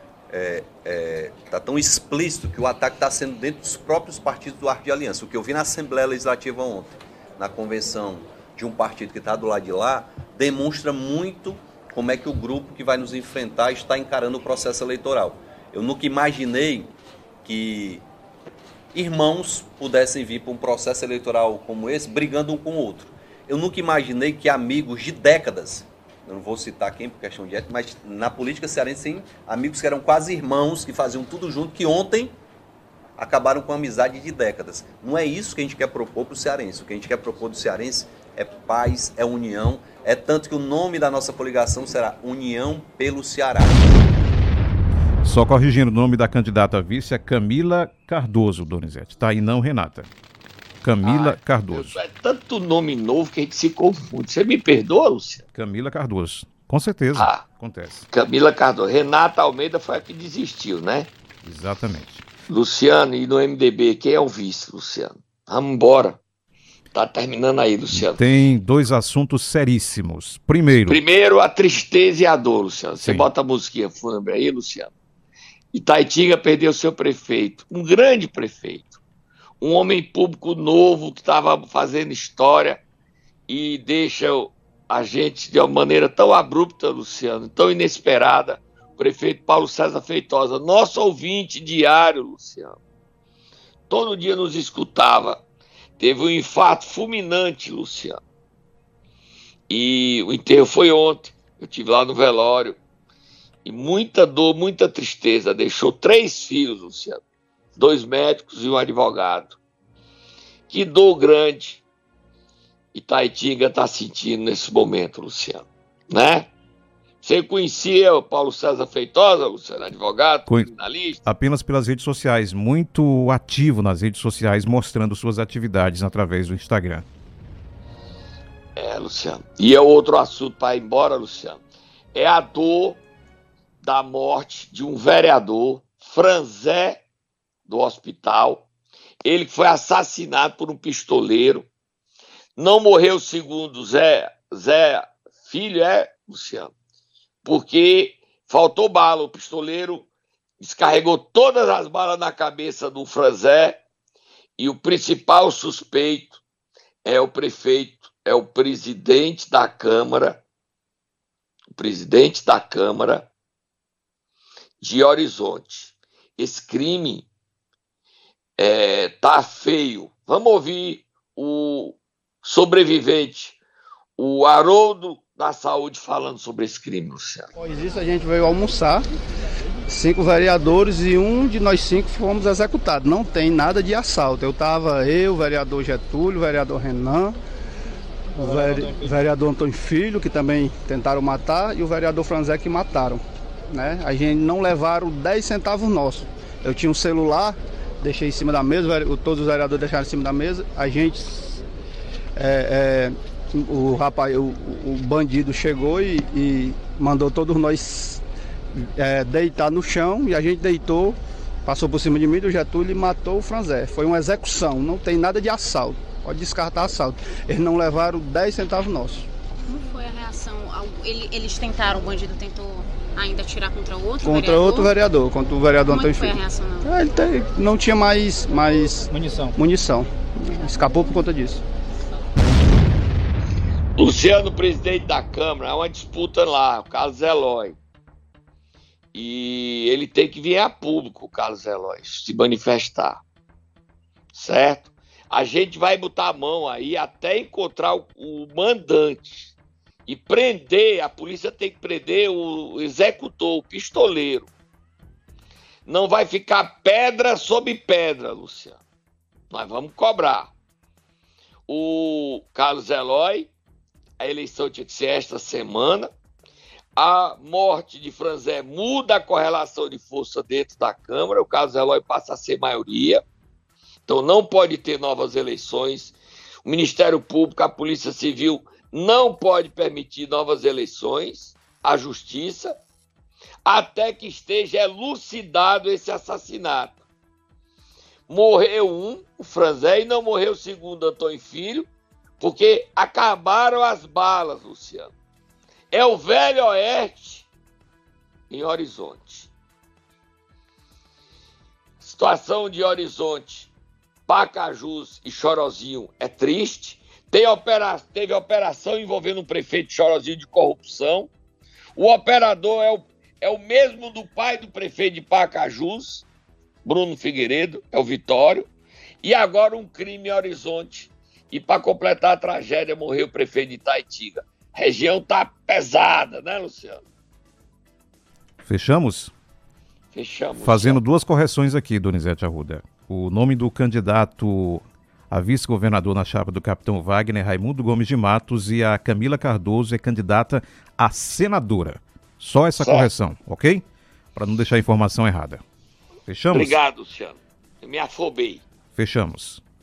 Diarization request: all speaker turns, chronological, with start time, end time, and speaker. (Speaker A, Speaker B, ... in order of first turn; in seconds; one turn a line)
Speaker A: 0.3-16.9
Speaker A: 17.4-18.1
Speaker A: 18.9-32.3
Speaker A: 33.2-44.0
Speaker B: 45.2-50.1
Speaker B: 50.8-52.0
Speaker C: 51.0-55.4
Speaker B: 55.5-58.1
Speaker C: 57.2-57.4
Speaker C: 58.1-61.1
Speaker B: 61.4-62.2
Speaker C: 62.5-66.2
Speaker C: 66.9-68.2
Speaker B: 67.9-71.0
Speaker C: 70.9-74.9
Speaker B: 73.0-73.3
Speaker C: 75.7-79.0
Speaker C: 79.6-82.8
Speaker C: 83.5-92.8
Speaker C: 93.9-95.4
Speaker C: 96.0-98.2
Speaker C: 99.7-102.8
Speaker C: 103.7-107.2
Speaker C: 107.8-109.6
Speaker C: 110.7-111.8
Speaker C: 112.9-116.5
Speaker C: 117.2-121.2
Speaker B: 121.2-127.1
Speaker C: 128.8-131.6
Speaker C: 132.1-133.0
Speaker C: 133.8-137.0
Speaker C: 137.7-138.7
Speaker C: 139.2-141.7
Speaker C: 142.6-146.7
Speaker C: 147.4-150.1
Speaker C: 150.6-153.8
Speaker C: 154.6-156.4
Speaker C: 157.1-160.4
Speaker C: 161.8-163.3
Speaker C: 164.8-167.3
Speaker C: 168.6-173.6
Speaker C: 174.2-177.5
Speaker D: 177.6-179.0
Speaker D: 179.9-187.3
Speaker D: 188.4-201.6
Speaker D: 202.4-208.2
Speaker D: 208.8-219.3
Speaker E: 219.7-224.9
Speaker D: 224.2-231.6
Speaker E: 225.8-226.9
Speaker C: 234.0-237.8
Speaker C: 239.1-243.2
Speaker C: 244.3-249.5
Speaker C: 250.1-254.5
Speaker C: 255.9-258.8
Speaker C: 259.5-260.5
Speaker C: 261.7-263.5
Speaker C: 264.2-266.1
Speaker C: 267.0-273.2
Speaker C: 274.1-282.8
Speaker C: 283.7-287.0
Speaker C: 288.3-291.9
Speaker C: 292.4-295.1
Speaker C: 295.9-297.5
Speaker C: 298.5-299.5
Speaker C: 302.0-303.7
Speaker C: 304.3-311.3
Speaker C: 312.0-316.3
Speaker C: 316.9-318.7
Speaker C: 319.2-327.0
Speaker B: 328.6-329.3
Speaker C: 330.1-331.0
Speaker B: 330.6-345.6
Speaker C: 342.8-343.1
Speaker B: 346.3-346.8
Speaker C: 346.5-348.6
Speaker B: 349.0-349.6